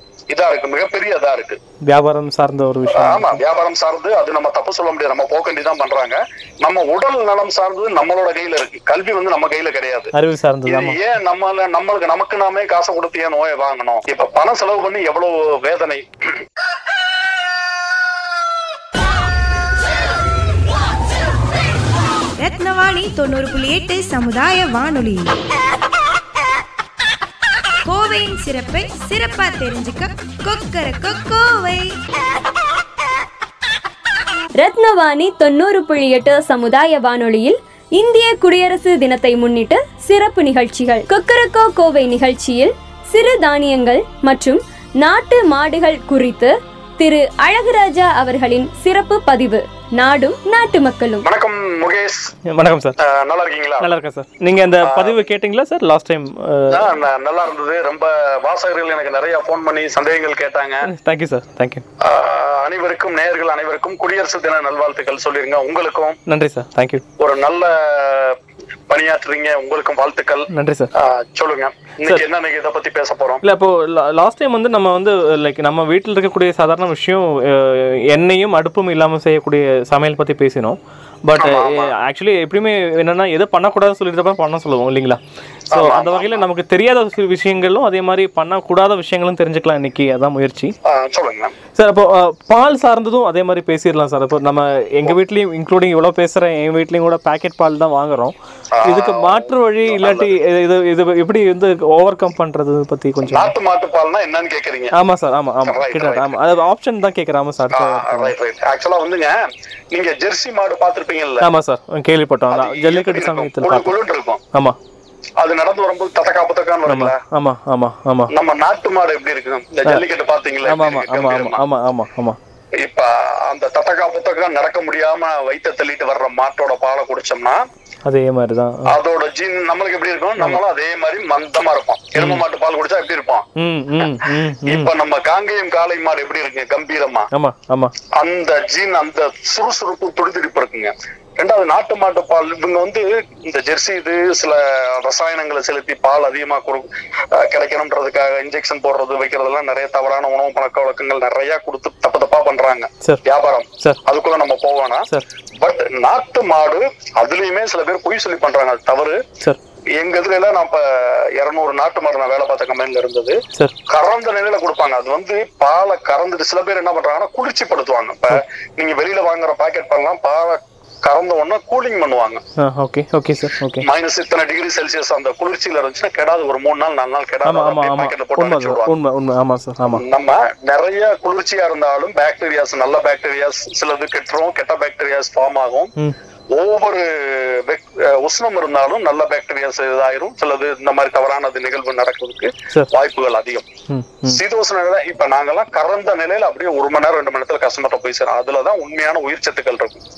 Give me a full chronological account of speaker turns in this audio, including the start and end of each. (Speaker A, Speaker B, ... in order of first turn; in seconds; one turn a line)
Speaker A: 0.3-1.6
Speaker B: 1.9-3.4
Speaker A: 2.9-10.1
Speaker B: 10.1-11.0
Speaker A: 10.6-16.0
Speaker C: 22.4-25.2
Speaker C: 27.8-31.8
Speaker D: 34.6-51.2
Speaker A: 51.2-52.3
Speaker B: 52.5-53.0
Speaker A: 53.0-53.9
Speaker B: 53.8-56.9
Speaker A: 54.8-55.3
Speaker A: 56.7-60.9
Speaker B: 60.9-61.8
Speaker A: 62.0-66.2
Speaker B: 66.3-67.0
Speaker A: 67.2-68.4
Speaker A: 68.9-73.4
Speaker B: 70.5-70.9
Speaker B: 73.4-85.2
Speaker A: 81.4-81.9
Speaker B: 85.7-90.7
Speaker A: 85.7-86.4
Speaker A: 90.8-91.5
Speaker B: 91.8-103.5
Speaker A: 98.7-100.3
Speaker A: 103.2-104.9
Speaker B: 105.0-108.3
Speaker A: 105.6-106.3
Speaker A: 107.7-109.3
Speaker A: 109.9-111.5
Speaker B: 111.4-113.9
Speaker A: 112.5-114.4
Speaker A: 115.4-117.2
Speaker B: 116.9-118.3
Speaker A: 118.3-121.6
Speaker B: 120.6-122.4
Speaker A: 122.8-127.6
Speaker B: 128.1-128.9
Speaker A: 128.8-133.4
Speaker B: 132.2-132.4
Speaker B: 133.6-134.9
Speaker A: 134.0-137.3
Speaker B: 137.3-137.9
Speaker A: 138.2-155.1
Speaker A: 155.6-159.2
Speaker A: 160.0-172.4
Speaker B: 172.6-173.8
Speaker A: 173.8-178.9
Speaker B: 177.4-180.0
Speaker A: 179.9-185.9
Speaker A: 186.5-193.7
Speaker B: 193.9-194.4
Speaker A: 194.3-200.0